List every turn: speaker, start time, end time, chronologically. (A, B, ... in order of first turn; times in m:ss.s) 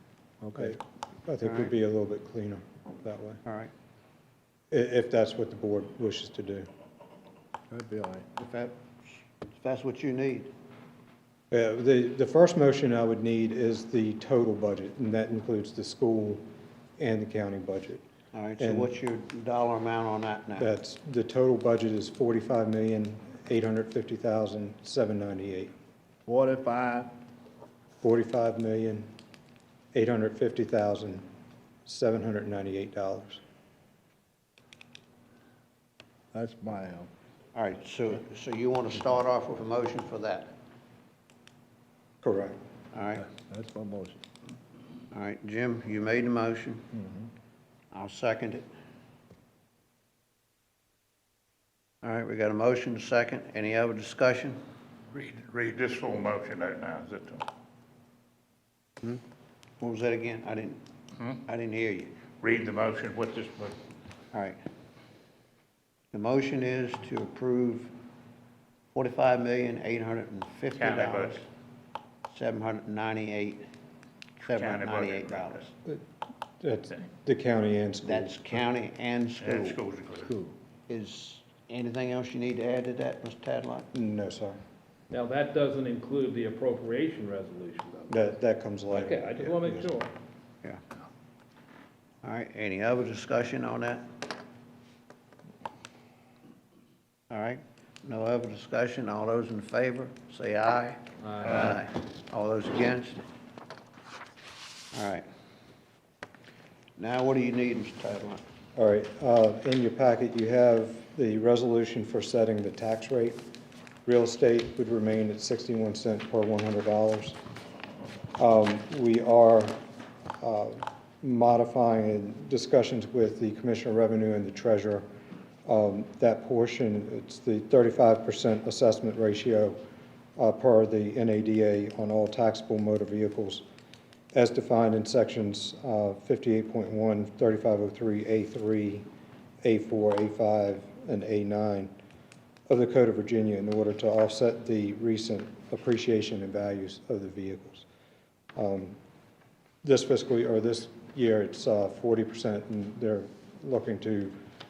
0:00.4-0:00.8 A
0:00.6-0:03.4 B
0:01.4-0:01.7 C
0:03.4-0:03.7 C
0:04.7-0:06.7 B
0:07.7-0:08.2 A
0:08.4-0:10.5 C
0:11.5-0:16.4 B
0:17.0-0:18.0 B
0:18.3-0:20.7 C
0:18.6-0:18.9 B
0:20.6-0:25.7 B
0:26.2-0:27.1 A
0:28.0-0:29.1 B
0:29.9-0:31.3 B
0:31.8-0:33.4 B
0:36.3-0:37.1 A
0:37.5-0:40.5 C
0:42.2-0:42.6 B
0:42.9-0:43.2 C
0:43.2-0:44.2 A
0:45.1-0:46.9 C
0:46.9-0:47.3 A
0:47.9-0:48.6 C
0:52.0-0:54.6 C
0:55.1-0:57.4 D
0:59.8-1:00.8 C
1:01.4-1:02.2 C
1:02.3-1:03.8 D
1:04.3-1:04.6 C
1:06.1-1:07.9 C
1:08.9-1:11.4 C
1:10.8-1:11.4 D
1:12.3-1:13.6 C
1:14.4-1:15.6 D
1:14.5-1:15.7 C
1:16.6-1:18.3 B
1:18.0-1:19.8 C
1:19.4-1:20.3 D
1:20.2-1:20.5 A
1:20.9-1:23.9 C
1:23.9-1:24.6 B
1:25.1-1:28.3 E
1:28.1-1:29.9 B
1:28.9-1:30.1 E
1:32.2-1:34.0 C
1:37.3-1:43.2 C
1:41.2-1:41.8 E
1:44.9-1:45.2 C
1:47.0-1:48.4 C
1:48.8-1:53.4 B
1:54.0-1:57.4 B
1:58.4-1:59.8 B
2:00.4-2:05.0 B
2:05.6-2:09.8 B
2:10.4-2:13.6 B
2:14.3-2:19.0 B
2:19.6-2:21.9 B
2:22.7-2:27.9 B
2:28.6-2:29.0 B
2:29.8-2:34.4 B